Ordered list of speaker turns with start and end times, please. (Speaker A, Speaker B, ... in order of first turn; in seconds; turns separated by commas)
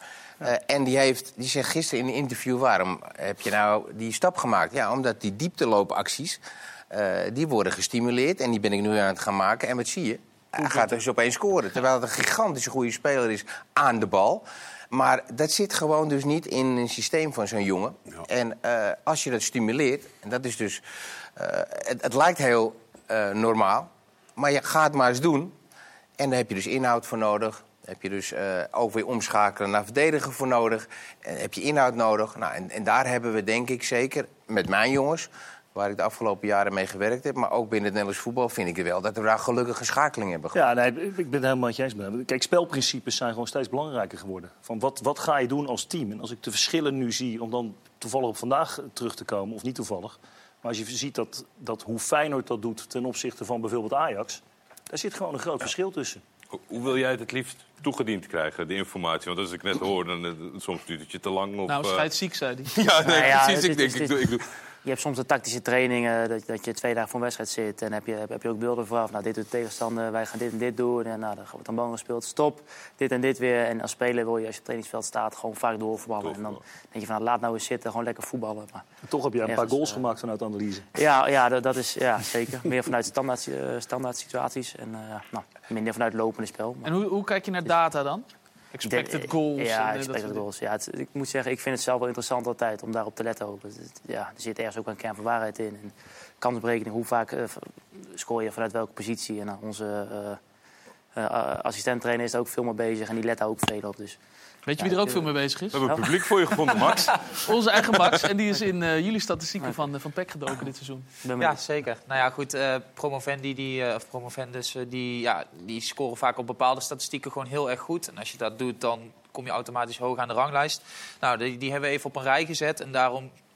Speaker A: 0.4-6.4, Speaker A: 6.9-20.8, Speaker A: 21.4-25.5, Speaker A: 26.2-40.6, Speaker B: 40.5-56.2, Speaker C: 56.5-62.1, Speaker D: 61.7-62.7, Speaker C: 62.7-64.5, Speaker E: 63.0-78.8, Speaker C: 76.2-76.6, Speaker B: 79.0-80.8, Speaker E: 79.4-80.1, Speaker E: 80.9-86.9, Speaker D: 86.8-90.4, Speaker E: 88.8-100.4, Speaker E: 101.2-104.2, Speaker D: 104.7-105.8, Speaker E: 104.8-105.3, Speaker C: 105.7-107.3, Speaker D: 107.2-111.1, Speaker E: 111.2-111.7, Speaker F: 111.4-123.3